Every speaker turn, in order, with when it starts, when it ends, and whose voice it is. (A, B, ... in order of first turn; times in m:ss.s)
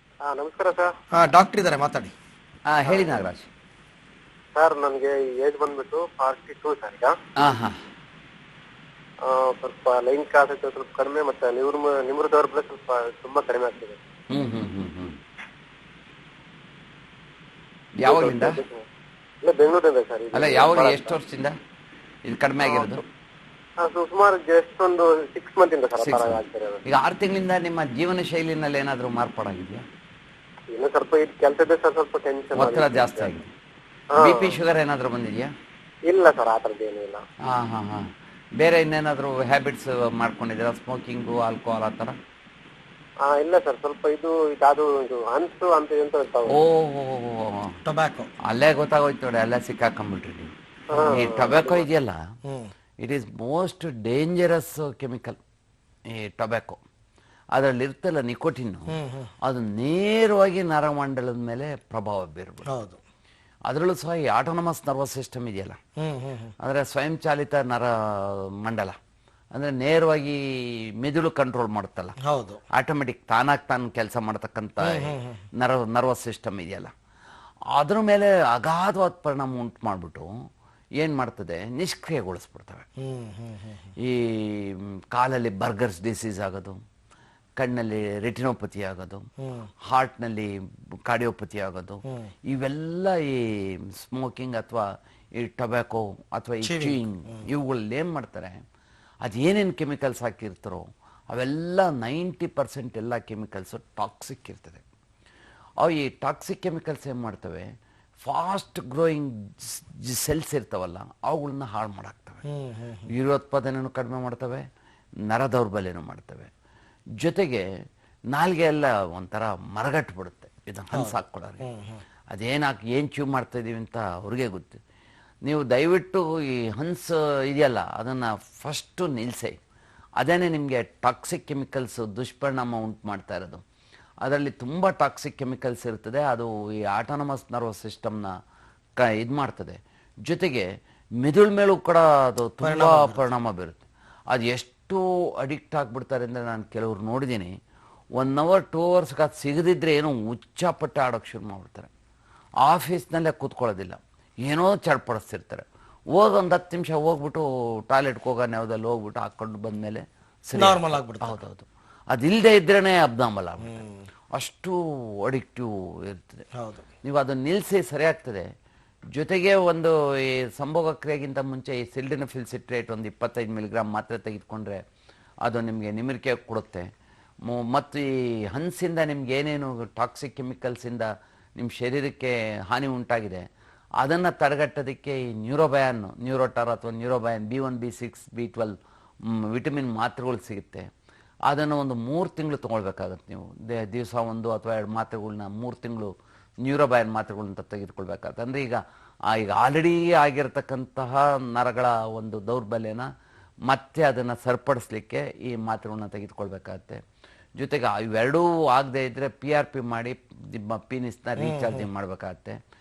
0:00.2-0:00.9 A
0:01.1-0:02.1 B
0:02.7-0:03.5 C
0:02.9-0:03.2 A
0:04.5-0:07.1 A
0:07.4-0:07.8 C
0:09.2-0:14.0 A
0:14.3-0:15.2 C
0:18.0-0:18.6 C
0:18.0-0:18.8 A
0:19.4-0:21.2 A
0:20.3-0:21.5 C
0:22.2-0:23.0 C
0:22.6-0:23.0 A
0:23.8-0:26.8 A
0:26.0-0:29.8 C
0:30.7-0:33.3 A
0:32.5-0:33.5 C
0:34.1-0:34.6 A
0:34.2-0:35.5 C
0:36.1-0:37.2 A
0:37.5-0:38.0 C
0:38.6-0:42.2 C
0:43.2-0:46.6 A
0:46.4-0:47.7 C
0:47.8-0:48.3 B
0:48.4-0:52.2 C
0:50.9-0:51.9 A
0:52.4-0:52.7 B
0:53.0-0:55.4 C
0:56.1-0:56.8 C
0:57.5-1:02.6 C
0:58.9-0:59.3 B
1:02.7-1:03.0 B
1:03.7-1:05.8 C
1:06.0-1:06.5 B
1:06.6-1:08.9 C
1:09.5-1:10.4 C
1:11.0-1:12.1 C
1:12.2-1:12.6 B
1:12.7-1:16.9 C
1:14.8-1:15.3 B
1:17.7-1:20.3 C
1:21.0-1:22.8 C
1:23.0-1:23.8 B
1:24.0-1:26.8 C
1:27.6-1:29.2 C
1:29.4-1:29.7 B
1:29.8-1:30.5 C
1:31.0-1:38.6 C
1:36.6-1:37.4 B
1:39.2-1:44.8 C
1:45.8-1:47.7 C
1:48.2-1:52.4 C
1:52.4-1:53.1 B
1:53.1-1:54.6 C
1:55.3-1:56.5 C
1:57.2-1:57.6 C
1:58.3-2:01.6 C
2:00.9-2:02.0 B
2:02.3-2:04.8 C
2:05.4-2:09.6 C
2:10.2-2:13.6 C
2:14.2-2:18.3 C
2:19.0-2:20.7 C
2:21.2-2:27.5 C
2:22.6-2:23.2 B
2:28.2-2:31.9 C
2:32.6-2:43.8 C
2:40.5-2:41.4 B
2:43.6-2:44.0 B
2:44.3-2:46.4 C
2:46.5-2:46.8 B
2:47.0-2:48.5 C
2:49.1-2:54.8 C
2:55.4-2:56.9 C
2:57.4-3:03.4 C
3:04.0-3:08.7 C
3:09.3-3:10.8 C
3:11.5-3:16.1 C
3:16.6-3:23.1 C
3:23.7-3:27.0 C
3:27.6-3:32.6 C
3:31.4-3:31.9 B